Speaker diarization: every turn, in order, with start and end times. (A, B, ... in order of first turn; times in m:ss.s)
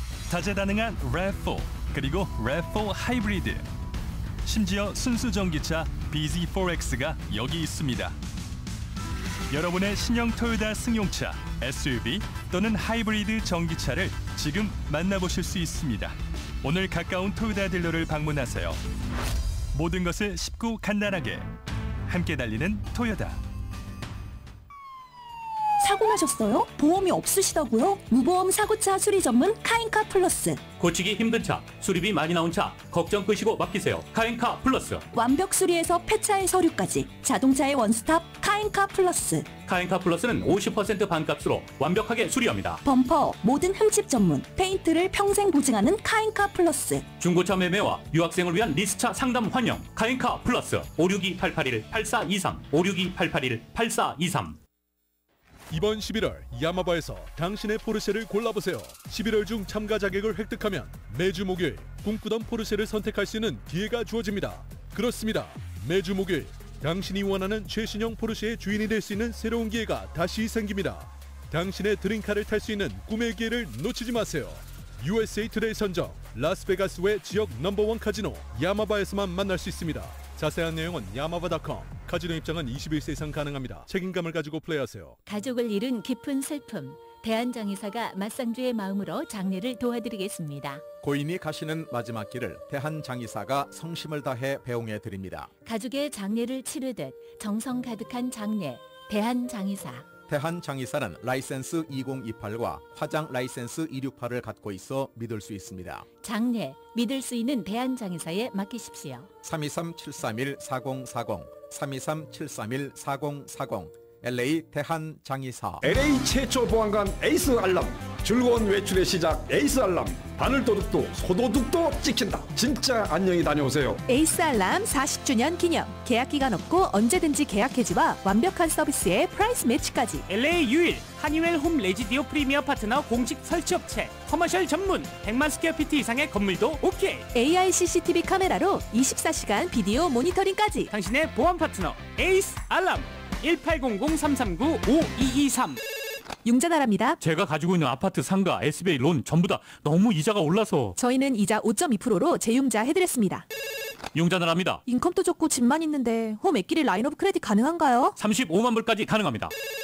0:00.3-0:03.7 A
0:04.4-0:08.2 A
0:09.5-0:18.8 A
0:19.7-0:21.5 A
0:22.0-0:23.4 A
0:25.8-0:30.6 B
0:30.8-0:35.0 C
0:35.1-0:39.5 B
0:39.6-0:42.8 C
0:42.8-0:47.0 B
0:47.2-0:54.6 C
0:55.7-1:25.2 D
1:25.2-1:30.8 E
1:31.0-1:35.5 F
1:35.6-1:40.0 E
1:40.3-1:46.0 F
1:46.2-1:49.3 E
1:49.4-1:55.8 F
1:55.8-2:04.0 G
2:04.1-2:10.2 H
2:10.3-2:17.3 I
2:17.3-2:20.9 H
2:20.9-2:25.8 I
2:26.4-2:27.2 H
2:27.2-2:31.0 C
2:31.0-2:33.4 H
2:34.1-2:34.8 C
2:34.9-2:38.0 B
2:36.7-2:38.1 H
2:38.2-2:39.5 C